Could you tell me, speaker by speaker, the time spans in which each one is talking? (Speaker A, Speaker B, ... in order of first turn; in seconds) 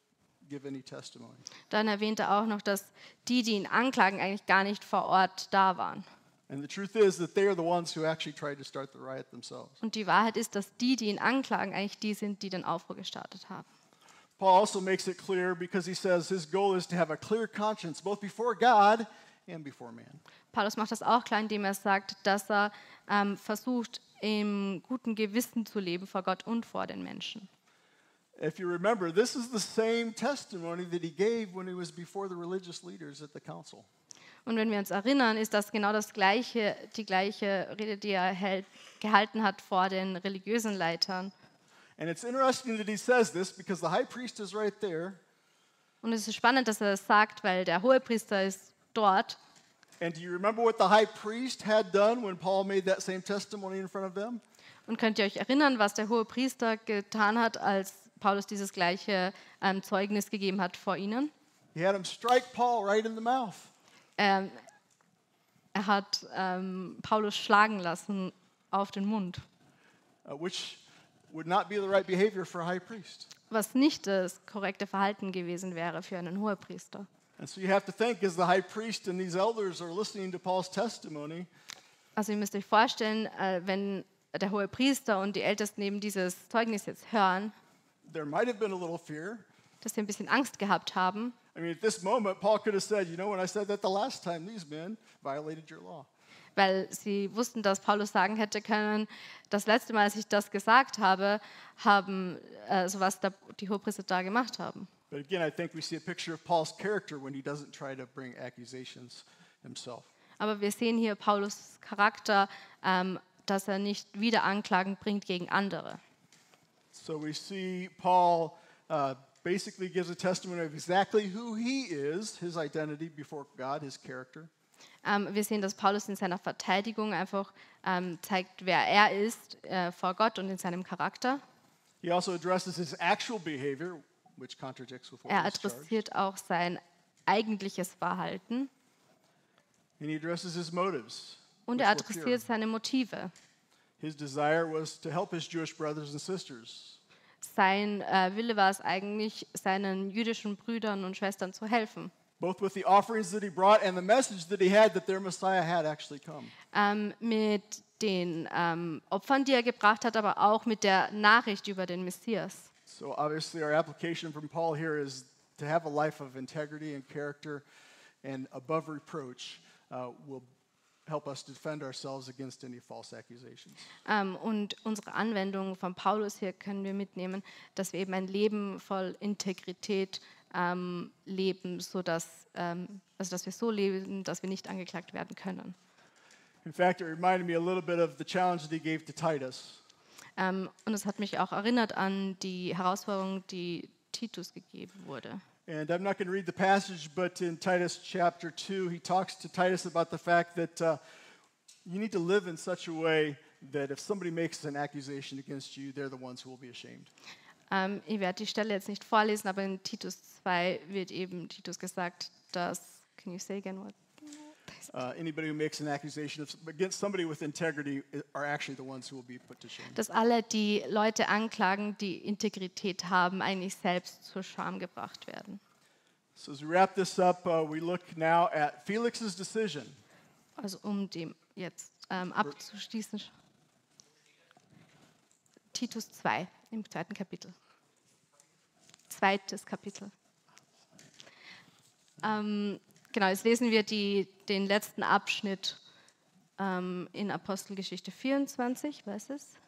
Speaker A: 0.4-1.4, 6.5-9.8, 14.4-20.2, 28.4-33.9, 42.0-45.2, 50.0-54.4, 61.7-63.7, 70.2-73.3, 77.4-81.5, 88.0-89.5, 91.5-96.1, 105.1-110.1, 116.9-124.5, 132.0-136.0, 140.0-142.4, 144.0-147.0, 152.4-156.5, 162.9-167.6, 168.2-170.5, 171.1-173.8, 186.6-189.8, 195.7-201.0, 201.8-207.1, 214.9-220.0, 226.3-230.0
Speaker B: 1.7-6.0, 9.8-13.7, 20.5-27.5, 34.5-41.3, 46.0-49.4, 54.9-61.3, 64.2-64.6, 65.7-69.4, 73.5-77.1, 82.2-87.5, 89.8-91.3, 96.5-104.9, 110.4-116.0, 125.0-131.4, 135.3-138.7, 141.7-143.3, 147.4-152.1, 156.7-162.7, 174.1-185.8, 190.4-195.4, 207.7-214.0, 219.9-225.6, 230.6-233.3, 235.7-237.6, 239.1-240.1, 242.2-245.8, 246.6-249.6